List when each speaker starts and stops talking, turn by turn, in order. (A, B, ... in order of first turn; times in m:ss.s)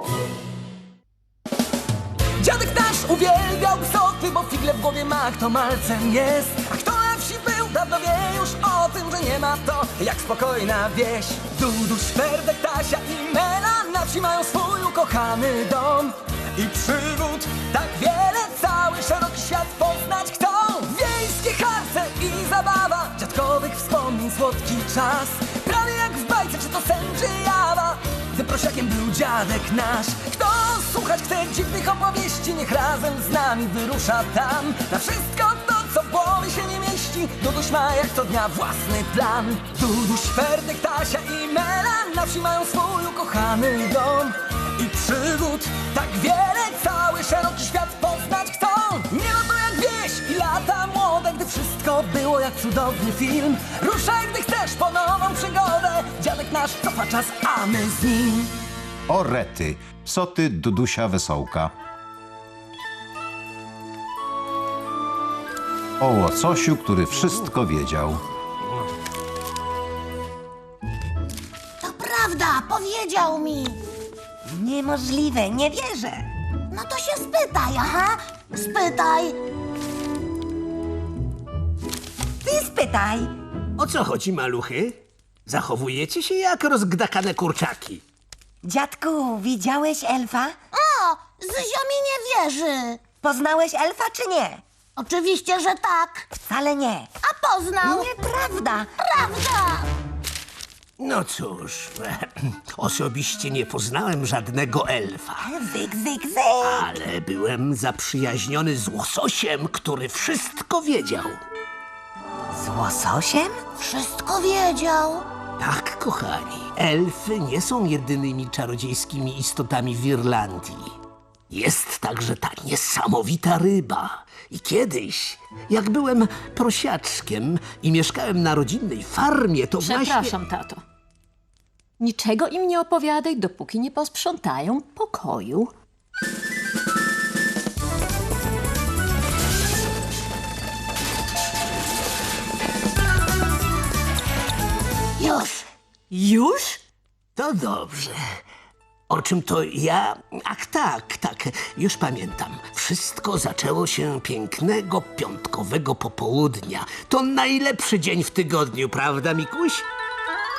0:02.4-0:58.5 A
0:59.1-1:01.7 B
1:06.0-1:08.2 B
1:11.8-1:13.8 C
1:14.5-1:16.3 D
1:16.7-1:19.4 C
1:22.4-1:23.3 D
1:23.8-1:28.0 E
1:28.6-1:30.6 D
1:30.7-1:33.0 C
1:33.2-1:34.6 D
1:35.0-1:36.3 C
1:36.4-1:37.1 D
1:37.2-1:38.1 C
1:37.8-1:38.9 D
1:39.0-1:39.9 C
1:41.0-1:45.4 E
1:45.4-1:47.0 D
1:46.6-1:51.4 E
1:52.5-1:53.6 D
1:53.8-1:55.2 C
1:55.6-2:00.9 E
2:01.5-2:10.4 E
2:09.8-2:10.8 F
2:12.0-2:15.7 F
2:25.2-2:25.6 C
2:27.4-2:28.2 E
2:29.1-2:39.9 E